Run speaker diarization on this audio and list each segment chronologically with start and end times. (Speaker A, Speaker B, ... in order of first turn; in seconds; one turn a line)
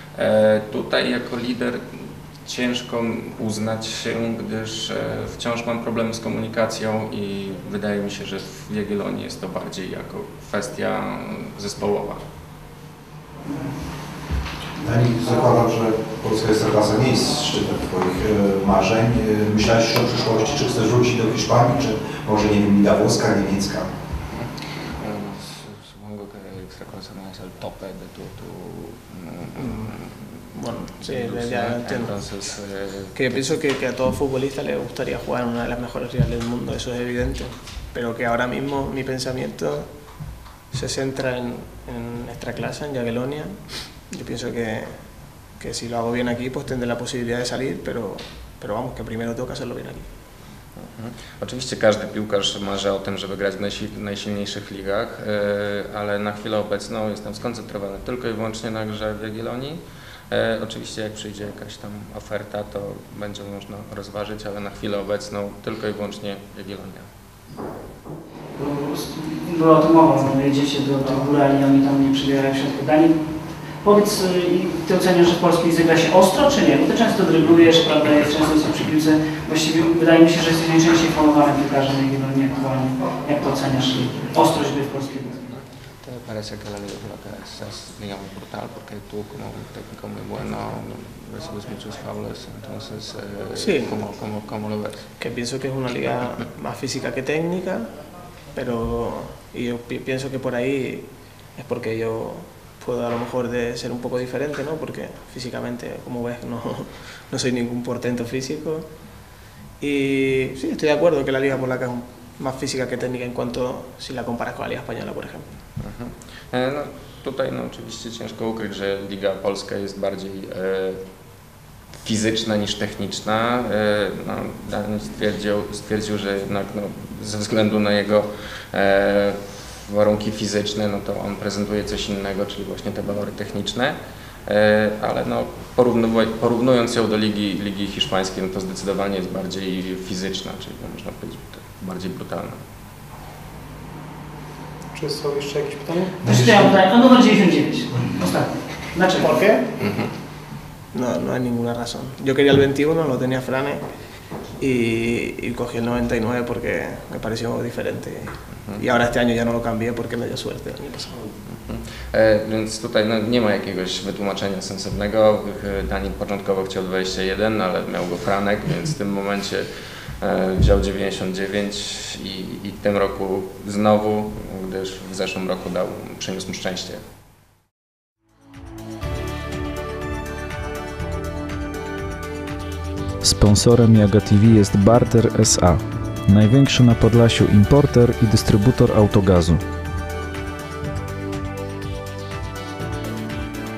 Speaker A: 0.1-12.2
Speaker B: 13.4-14.0
Speaker C: 14.8-23.9
Speaker B: 14.8-15.5
Speaker A: 24.3-33.4
Speaker D: 29.6-29.9
Speaker D: 30.5-32.2
Speaker D: 33.1-39.9
Speaker D: 40.7-45.0
Speaker D: 45.6-50.1
Speaker A: 50.8-67.1
Speaker B: 68.5-85.5
Speaker A: 86.0-95.1
Speaker D: 93.5-94.0
Speaker D: 95.2-97.9
Speaker D: 98.5-108.9
Speaker D: 109.8-115.5
Speaker A: 115.8-121.0
Speaker A: 122.0-142.6
Speaker D: 145.1-145.9
Speaker B: 146.1-149.4
Speaker C: 146.2-146.7
Speaker C: 147.9-148.3
Speaker D: 149.2-149.7
Speaker A: 149.8-150.1
Speaker D: 150.9-153.8
Speaker D: 154.6-161.3
Speaker A: 161.5-169.7
Speaker A: 170.2-177.0
Speaker E: 183.2-189.6